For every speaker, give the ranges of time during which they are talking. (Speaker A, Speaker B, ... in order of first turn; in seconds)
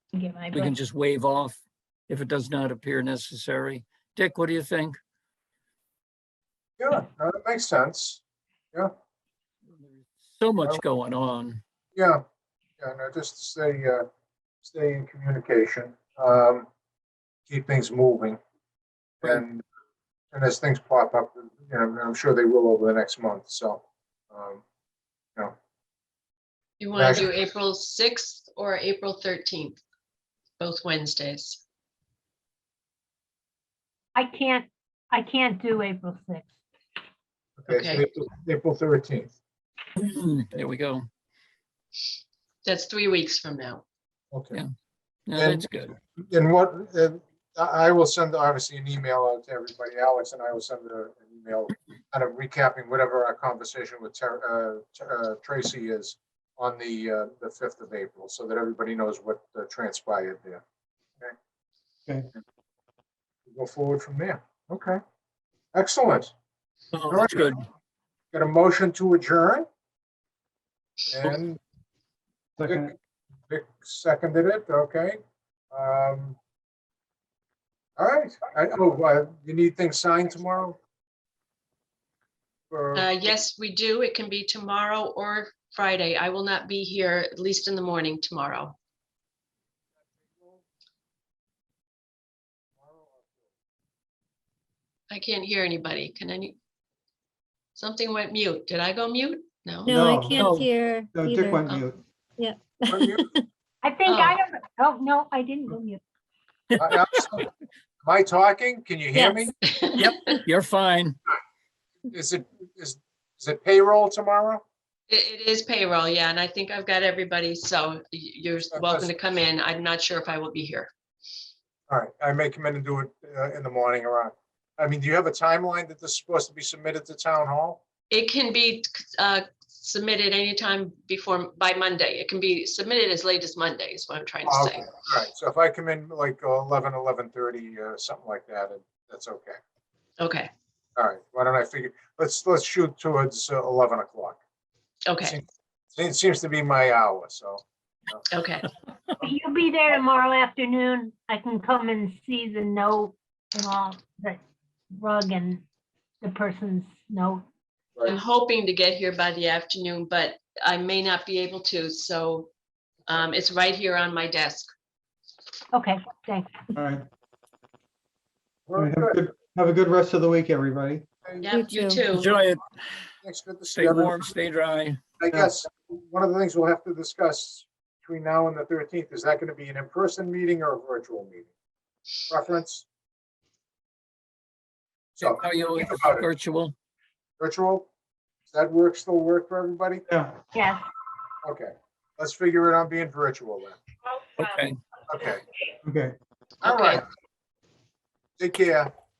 Speaker A: 0.1-0.8, 34.1-36.5, 103.8-106.0, 149.2-154.4, 154.9-155.7, 156.2-157.4, 165.7-166.7, 190.5-190.8
Speaker B: 0.5-5.0, 9.7-11.6, 40.0-41.1, 45.3-46.0, 66.9-67.6, 100.4-100.7, 110.0-111.2, 172.1-172.7, 173.7-175.0, 185.2-186.8, 194.4-194.8
Speaker C: 6.8-8.2, 11.9-12.2, 12.8-14.1, 14.6-16.7, 17.5-18.4, 19.2-19.6, 20.3-24.6, 26.9-27.3, 37.6-39.3, 44.3-44.6, 45.4-60.6, 63.5-65.0, 65.7-66.3, 67.1-67.5, 68.3-69.7, 71.1-71.6, 73.5-75.2, 75.7-76.4, 78.0-80.8, 82.7-83.1, 90.3-90.6, 92.8-93.5, 102.9-103.3, 106.8-107.5, 108.0-109.5, 112.1-114.6, 118.7-119.1, 121.9-127.8, 134.5-139.6, 141.0-144.4, 145.2-148.3, 168.7-169.2, 173.2-174.3, 175.2-181.5, 182.3-182.9, 185.2-186.3, 187.4-187.9, 188.5-190.0, 191.4-193.8, 195.1-195.4, 196.6-197.0, 198.4-198.9
Speaker D: 26.8-29.8, 30.6-31.6, 37.7-38.1, 42.6-43.8, 83.0-88.8, 95.1-96.6, 97.8-100.0, 104.1-104.4, 109.7-110.4, 115.1-120.9, 128.1-134.9, 140.2-140.5, 145.1-145.4, 148.3-148.7, 158.1-162.5, 163.1-164.7, 171.4-172.3, 196.6-197.0
Speaker E: 72.6-72.9, 99.9-100.5, 101.1-102.0, 166.8-167.1, 168.8-171.1, 190.1-190.4, 195.8-196.2
Speaker F: 99.8-101.6, 102.4-103.4, 109.1-109.5, 171.4-172.0